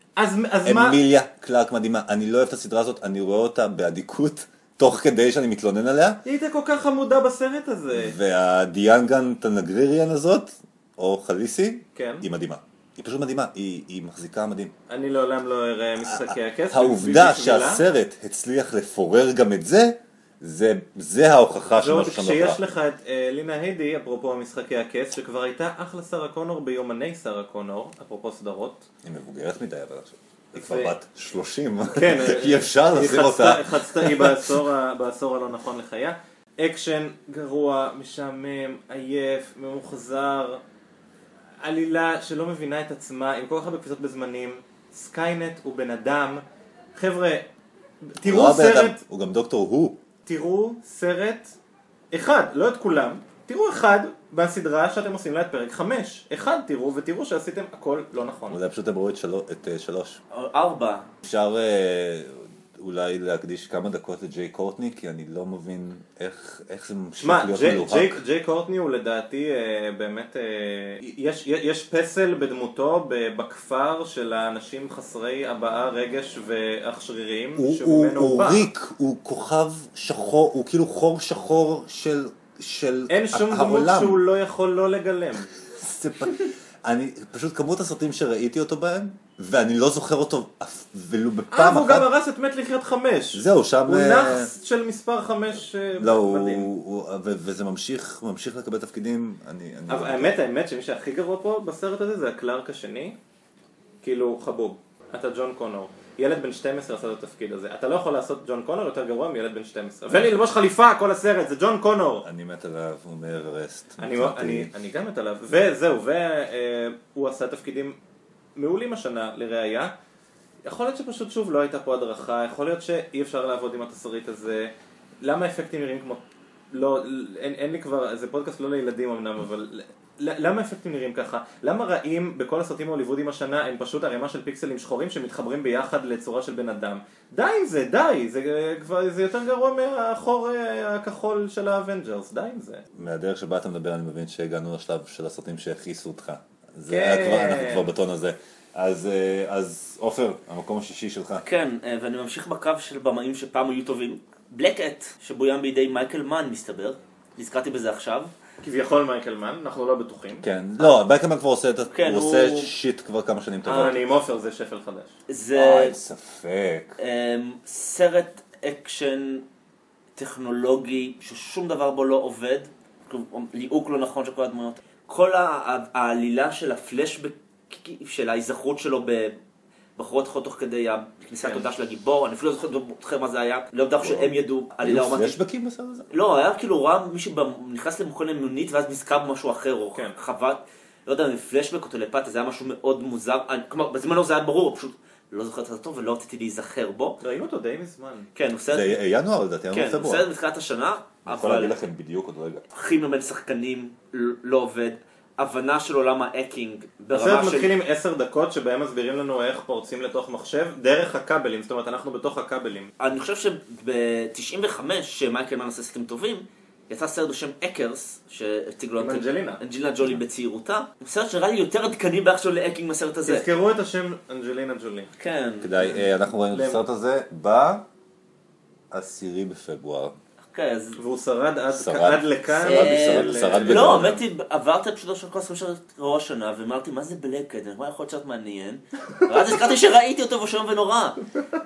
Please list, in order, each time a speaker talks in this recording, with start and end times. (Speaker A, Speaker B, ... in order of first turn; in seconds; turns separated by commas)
Speaker A: 0.2-1.0, Speaker B: 0.6-6.2, Speaker A: 6.2-8.2, Speaker B: 7.9-14.7, Speaker A: 11.9-12.2, Speaker A: 14.9-17.8, Speaker B: 16.0-22.6, Speaker A: 21.8-28.9, Speaker B: 29.0-34.4, Speaker A: 30.6-30.9, Speaker A: 31.9-40.6, Speaker A: 41.6-46.4, Speaker A: 46.9-47.5, Speaker A: 48.0-49.0, Speaker B: 48.2-50.0, Speaker A: 50.2-51.5, Speaker A: 52.1-58.6, Speaker B: 58.5-60.2, Speaker C: 60.3-61.1, Speaker B: 61.2-68.2, Speaker A: 67.2-78.7, Speaker B: 77.6-84.2, Speaker A: 83.1-85.5, Speaker B: 85.7-92.1, Speaker A: 91.5-96.7, Speaker B: 93.3-94.5, Speaker B: 96.0-100.3, Speaker A: 99.9-103.2, Speaker A: 104.0-112.2, Speaker B: 112.2-114.7, Speaker A: 114.0-118.0, Speaker A: 118.5-119.9, Speaker A: 120.6-142.8, Speaker B: 142.9-151.4, Speaker A: 146.9-147.9, Speaker C: 151.4-158.3, Speaker A: 158.6-160.4, Speaker B: 160.4-164.0, Speaker C: 161.9-162.7, Speaker A: 163.6-165.1, Speaker C: 165.3-165.9, Speaker B: 165.5-167.0, Speaker C: 167.0-169.4, Speaker C: 170.2-179.3, Speaker C: 180.0-185.4, Speaker A: 181.4-181.7, Speaker B: 184.0-186.1, Speaker C: 186.1-197.2, Speaker A: 197.2-198.3, Speaker C: 198.3-199.0, Speaker B: 198.7-200.3, Speaker C: 199.7-201.8, Speaker B: 201.2-202.6, Speaker C: 202.7-207.7, Speaker A: 207.1-212.9, Speaker C: 213.0-223.4, Speaker A: 219.0-219.6, Speaker A: 223.2-225.1, Speaker C: 225.2-225.7, Speaker B: 225.6-227.8, Speaker A: 225.8-226.8, Speaker B: 228.9-230.1, Speaker C: 230.5-231.0, Speaker A: 231.0-234.0, Speaker B: 231.7-234.2, Speaker C: 232.6-241.2